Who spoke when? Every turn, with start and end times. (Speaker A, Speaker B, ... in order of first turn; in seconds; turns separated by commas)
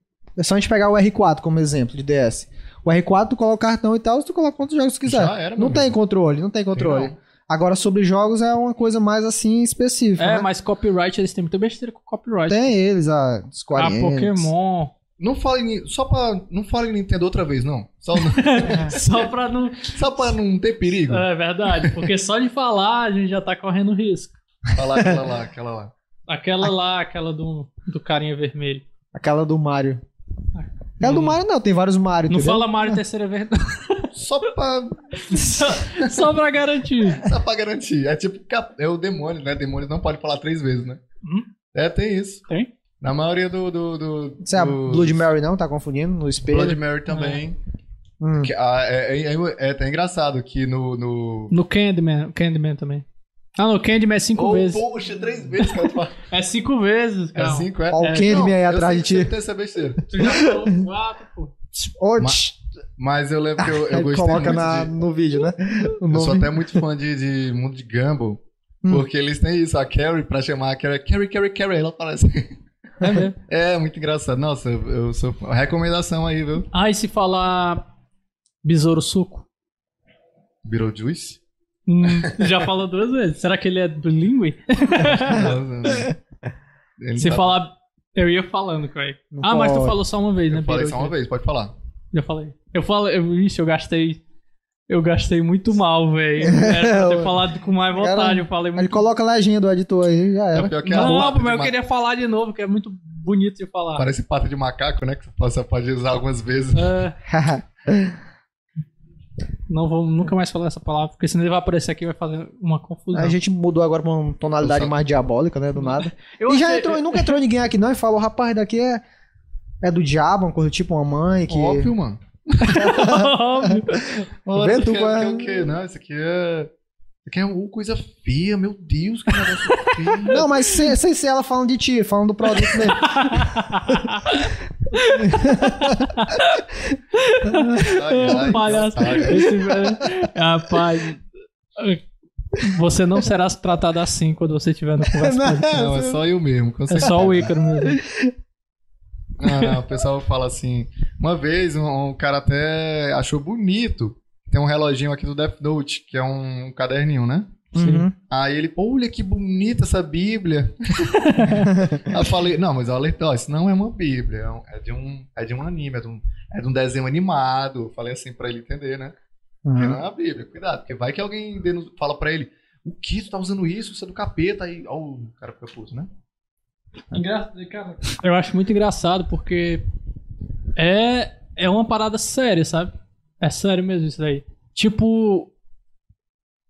Speaker A: 0.4-10.5, Speaker B: 5.0-5.9, Speaker B: 6.8-7.2, Speaker C: 10.2-12.7, Speaker A: 12.5-14.5, Speaker C: 13.8-14.9, Speaker B: 15.2-19.1, Speaker C: 18.1-20.0, Speaker A: 18.7-18.9, Speaker B: 19.8-21.3, Speaker C: 21.1-24.4, Speaker B: 24.8-25.9, Speaker C: 26.3-28.8, Speaker A: 29.1-30.0, Speaker C: 30.6-31.4, Speaker A: 31.0-33.0, Speaker C: 32.3-34.1, Speaker B: 34.1-36.3, Speaker C: 35.2-37.3, Speaker B: 37.2-41.0, Speaker C: 41.2-41.5, Speaker B: 41.7-42.4, Speaker B: 43.0-45.3, Speaker A: 44.4-46.8, Speaker B: 46.5-47.6, Speaker C: 47.1-47.4, Speaker A: 48.2-48.5, Speaker B: 48.4-51.5, Speaker C: 51.5-53.0, Speaker C: 53.6-54.8, Speaker B: 54.4-56.2, Speaker C: 56.3-58.5, Speaker B: 57.4-60.1, Speaker A: 57.9-59.3, Speaker C: 60.1-61.5, Speaker A: 60.2-60.7, Speaker A: 61.8-62.5, Speaker B: 63.0-64.9, Speaker A: 63.6-66.8, Speaker B: 66.1-72.5, Speaker C: 73.0-73.4, Speaker B: 73.5-76.7, Speaker C: 76.7-77.8, Speaker C: 78.6-79.5, Speaker B: 80.7-81.4, Speaker C: 81.9-85.5, Speaker B: 82.1-82.5, Speaker B: 85.1-86.2, Speaker A: 85.4-86.1, Speaker B: 87.0-87.6, Speaker C: 87.2-91.1, Speaker A: 89.3-90.0, Speaker B: 90.5-91.7, Speaker C: 92.1-94.2, Speaker C: 94.9-99.0, Speaker A: 96.4-97.4, Speaker A: 98.0-101.3, Speaker B: 100.5-101.7, Speaker C: 100.8-104.1, Speaker B: 104.0-106.9, Speaker C: 106.7-107.2, Speaker A: 107.2-108.2, Speaker C: 109.7-113.3, Speaker A: 113.1-119.0, Speaker B: 114.6-114.9, Speaker C: 115.8-117.4, Speaker A: 119.8-121.9, Speaker B: 121.5-122.9, Speaker C: 122.7-124.2, Speaker A: 122.7-124.0, Speaker B: 124.5-126.7, Speaker A: 124.5-125.6, Speaker B: 127.3-130.5, Speaker C: 129.5-130.2, Speaker A: 130.3-133.3, Speaker C: 132.6-136.6, Speaker A: 135.2-136.1, Speaker C: 137.1-141.2, Speaker A: 137.5-139.3, Speaker B: 137.8-139.6, Speaker C: 141.8-142.0, Speaker C: 142.6-145.8, Speaker A: 145.1-146.2, Speaker B: 145.7-147.5, Speaker C: 146.9-148.0, Speaker A: 147.1-148.3, Speaker B: 149.4-157.7, Speaker A: 157.7-158.1, Speaker C: 157.8-158.1, Speaker B: 158.3-169.1, Speaker C: 161.1-161.8, Speaker A: 161.7-162.1, Speaker A: 169.7-170.0, Speaker B: 169.8-176.1, Speaker C: 177.1-179.8, Speaker C: 180.8-185.5